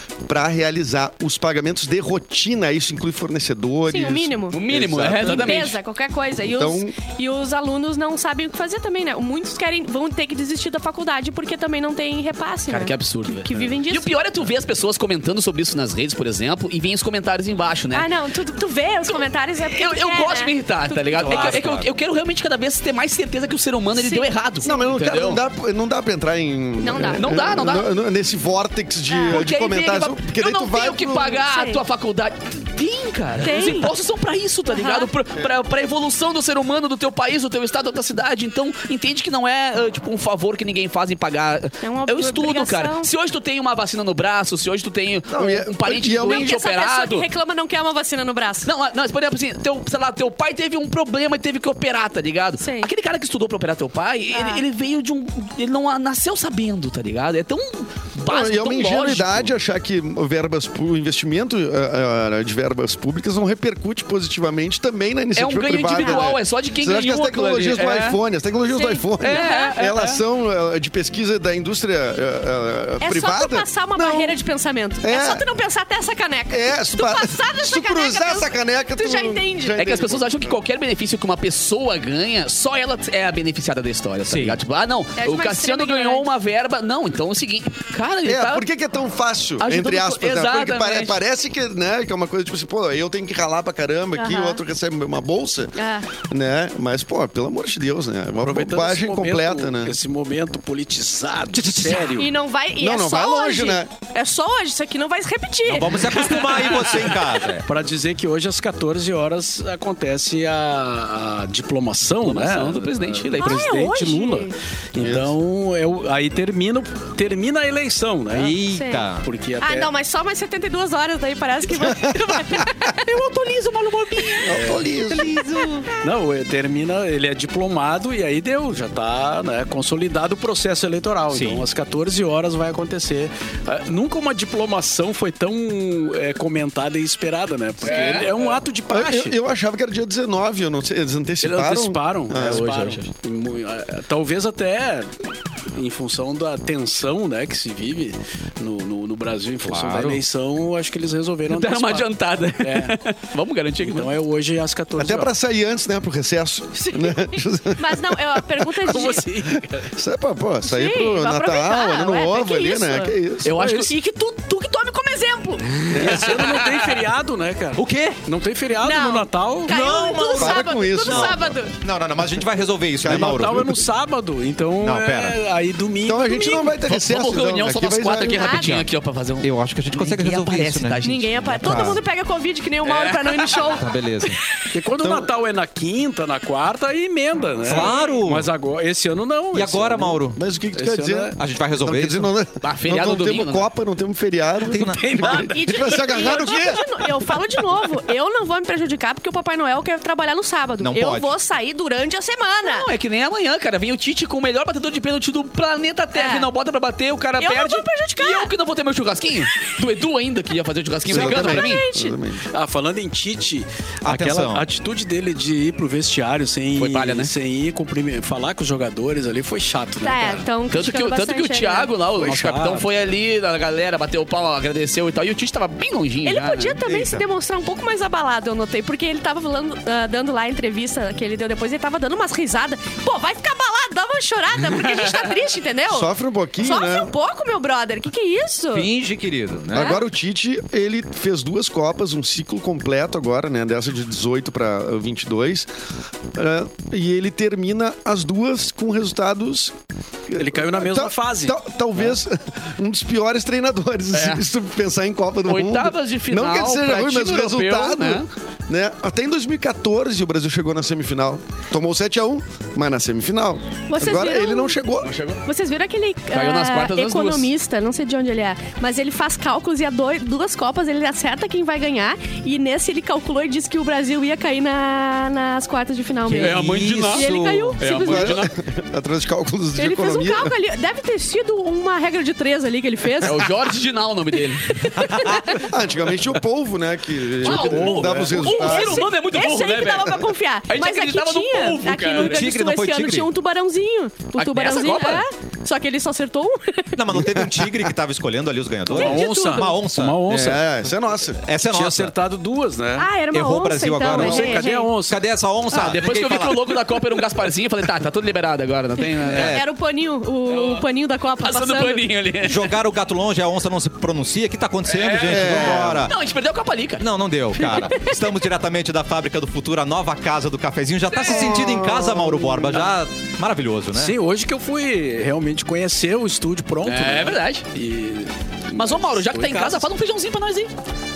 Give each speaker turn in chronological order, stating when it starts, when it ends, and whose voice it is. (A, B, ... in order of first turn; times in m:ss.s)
0:00.3-0:05.7 A
0:03.9-0:04.6 B
0:04.5-0:05.8 C
0:05.2-0:14.2 B
0:06.4-0:07.0 A
0:12.7-0:18.1 C
0:17.9-0:21.7 B
0:19.1-0:25.4 C
0:21.2-0:21.9 D
0:24.0-0:24.3 B
0:24.6-0:31.4 A
0:26.8-0:27.5 B
0:27.0-0:27.9 C
0:29.1-0:29.4 B
0:29.3-0:47.3 C
0:31.1-0:31.8 B
0:33.4-0:33.9 B
0:34.7-0:35.1 B
0:41.8-0:43.1 B
0:45.3-0:46.5 A
0:46.2-0:48.7 B
0:48.7-0:59.5 C
0:52.6-0:52.9 B
0:54.3-0:54.6 B
0:58.3-1:14.4 A
1:05.4-1:08.2 C
1:06.0-1:06.3 B
1:08.7-1:09.8 B
1:09.2-1:10.2 C
1:13.0-1:19.8 B
1:15.0-1:15.4 A
1:16.5-1:20.6 A
1:19.8-1:28.7 C
1:24.3-1:24.6 A
1:25.2-1:26.3 B
1:28.2-1:35.7 A
1:29.6-1:31.2 C
1:34.2-1:34.6 B
1:35.8-1:36.1 B
1:36.3-1:40.0 A
1:38.4-1:42.4 E
1:41.5-1:42.2 D
1:42.2-1:46.9 B
1:42.8-1:43.9 A
1:45.6-1:47.6 D
1:46.6-1:47.1 C
1:47.7-1:58.6 E
1:52.2-1:53.7 C
1:53.4-1:54.6 B
1:55.0-1:55.3 A
1:58.3-1:59.3 D
1:58.6-1:59.0 B
1:59.2-1:59.9 E
1:59.6-2:04.6 B
2:01.8-2:02.6 A
2:04.4-2:05.3 A
2:04.5-2:04.8 E
2:04.7-2:05.9 D
2:05.2-2:05.9 B
2:06.0-2:19.4 E
2:11.3-2:11.7 D
2:17.8-2:18.4 C
2:18.9-2:22.6 A
2:21.4-2:25.2 E
2:22.3-2:23.1 C
2:25.7-2:32.1 E
2:29.7-2:30.2 D
2:31.5-2:34.1 C
2:32.6-2:33.0 E
2:33.8-2:35.3 E
2:35.0-2:43.5 A
2:36.8-2:39.2 B
2:38.8-2:39.9 E
2:40.6-2:46.1 B
2:43.4-2:43.9 C
2:43.5-2:43.9 E
2:45.9-2:49.7 E
2:46.0-2:46.8 C
2:47.8-2:48.2 D
2:48.8-2:51.7 B
2:49.7-2:53.8 D
2:50.3-2:51.5 A
2:53.0-2:53.8 A
2:53.0-2:56.8 E
2:54.8-2:55.4 D
2:56.0-2:58.8 A
2:56.9-3:02.0 C
2:58.3-2:58.8 B
2:59.4-3:01.0 D
3:01.0-3:04.7 B
3:01.6-3:02.0 D
3:02.8-3:03.8 C
3:03.8-3:04.4 D
3:04.7-3:11.4 E
3:05.0-3:05.3 A
3:07.6-3:08.5 D
3:07.7-3:08.1 B
3:09.5-3:10.4 D
3:10.4-3:16.8 A
3:11.4-3:12.3 D
3:12.6-3:13.7 C
3:14.7-3:15.4 D
3:15.0-3:17.0 E
3:15.3-3:22.9 B
3:20.8-3:21.3 D
3:22.6-3:31.8 C
3:26.1-3:26.5 B
3:27.4-3:28.5 B
3:31.1-3:32.4 A
3:31.2-3:32.2 B
3:32.5-3:40.5 E
3:34.0-3:34.6 D
3:36.8-3:37.3 C
3:40.0-3:41.9 B
3:40.7-3:46.8 C
3:42.2-3:42.9 E
3:46.2-3:58.9 B
3:46.8-3:47.3 D
3:54.8-3:55.1 C
3:55.9-3:57.1 A
3:58.7-4:00.0 D
3:59.7-4:05.7 A
3:59.8-4:00.0 B
4:06.3-4:09.8 A
4:10.3-4:25.1 A
4:10.4-4:11.6 E
4:14.1-4:14.4 C
4:15.5-4:18.3 C
4:23.9-4:24.8 B
4:25.0-4:25.4 C
4:25.4-4:36.6 B
4:26.3-4:27.5 C
4:36.3-4:38.5 C
4:36.4-4:37.8 D
4:37.1-4:38.4 B
4:38.0-4:40.5 A
4:39.8-4:43.4 B
4:43.2-4:44.8 C
4:44.7-4:45.7 B
4:45.6-4:49.0 A
4:47.4-4:52.5 C
4:47.4-4:48.5 E
4:48.4-4:57.0 B
4:52.2-4:53.3 D
4:54.4-4:55.2 C
4:57.0-5:00.6 D
4:57.1-4:57.7 A
4:58.9-5:00.6 E
4:58.9-4:59.7 B
5:00.3-5:01.4 A
5:01.5-5:02.2 D
5:01.5-5:03.1 E
5:03.0-5:04.9 B
5:03.3-5:06.6 D
5:04.1-5:05.2 E
5:04.2-5:04.4 A
5:05.7-5:09.6 C
5:09.2-5:09.7 D
5:09.3-5:12.0 B
5:10.5-5:10.8 C
5:11.4-5:12.7 C
5:12.4-5:16.2 D
5:14.9-5:17.0 C
5:15.2-5:16.1 A
5:17.0-5:24.2 D
5:17.6-5:18.1 B
5:21.1-5:21.6 C
5:21.2-5:22.9 A
5:23.9-5:29.9 E
5:26.8-5:27.6 C
5:28.7-5:30.7 C